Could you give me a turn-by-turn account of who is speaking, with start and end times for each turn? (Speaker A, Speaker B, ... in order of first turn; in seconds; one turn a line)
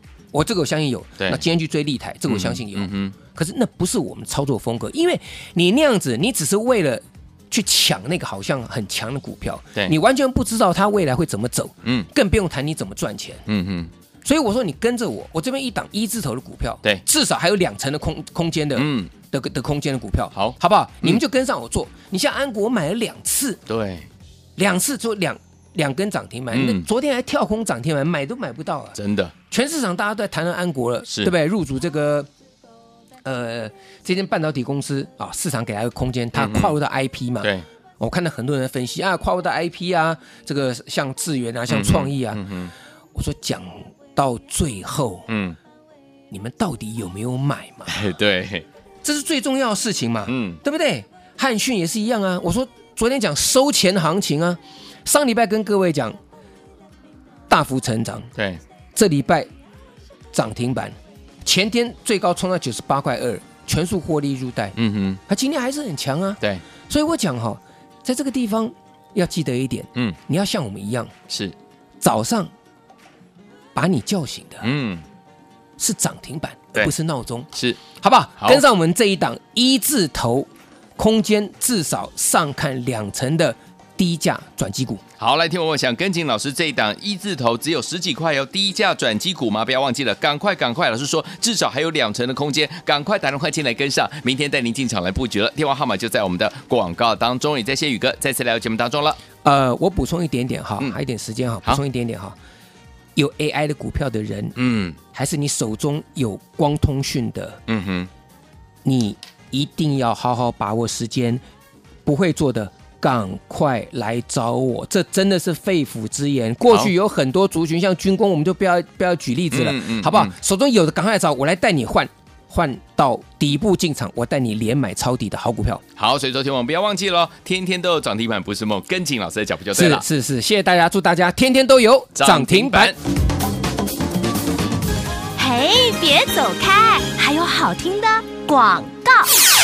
Speaker A: 0.3-13.5
Speaker B: 2.3-3.2
Speaker B: 11.8-12.1
Speaker B: 13.5-13.9
Speaker A: 14.2-23.6
Speaker B: 18.8-19.1
Speaker B: 20.3-21.2
Speaker B: 23.7-24.1
Speaker A: 24.6-29.0
Speaker B: 26.5-26.9
Speaker B: 28.9-29.3
Speaker A: 29.5-32.3
Speaker B: 31.1-31.3
Speaker A: 33.2-42.5
Speaker B: 36.3-36.8
Speaker B: 41.7-42.7
Speaker A: 43.1-45.3
Speaker B: 45.3-45.6
Speaker A: 46.3-48.1
Speaker B: 47.9-48.7
Speaker A: 49.0-56.2
Speaker B: 50.3-50.6
Speaker A: 57.5-58.3
Speaker B: 58.4-58.6
Speaker A: 59.0-59.5
Speaker A: 60.3-64.8
Speaker B: 64.8-65.2
Speaker A: 65.3-71.1
Speaker B: 71.3-71.6
Speaker A: 72.0-72.5
Speaker A: 73.8-74.7
Speaker B: 74.6-75.0
Speaker A: 75.8-85.0
Speaker B: 77.5-77.8
Speaker B: 85.2-99.2
Speaker A: 99.4-102.4
Speaker A: 103.2-107.6
Speaker B: 104.6-105.0
Speaker B: 107.7-108.1
Speaker A: 108.8-111.4
Speaker A: 112.0-125.8
Speaker B: 119.5-120.3
Speaker B: 126.0-130.1
Speaker A: 129.7-132.9
Speaker B: 132.2-133.0
Speaker C: 135.4-139.3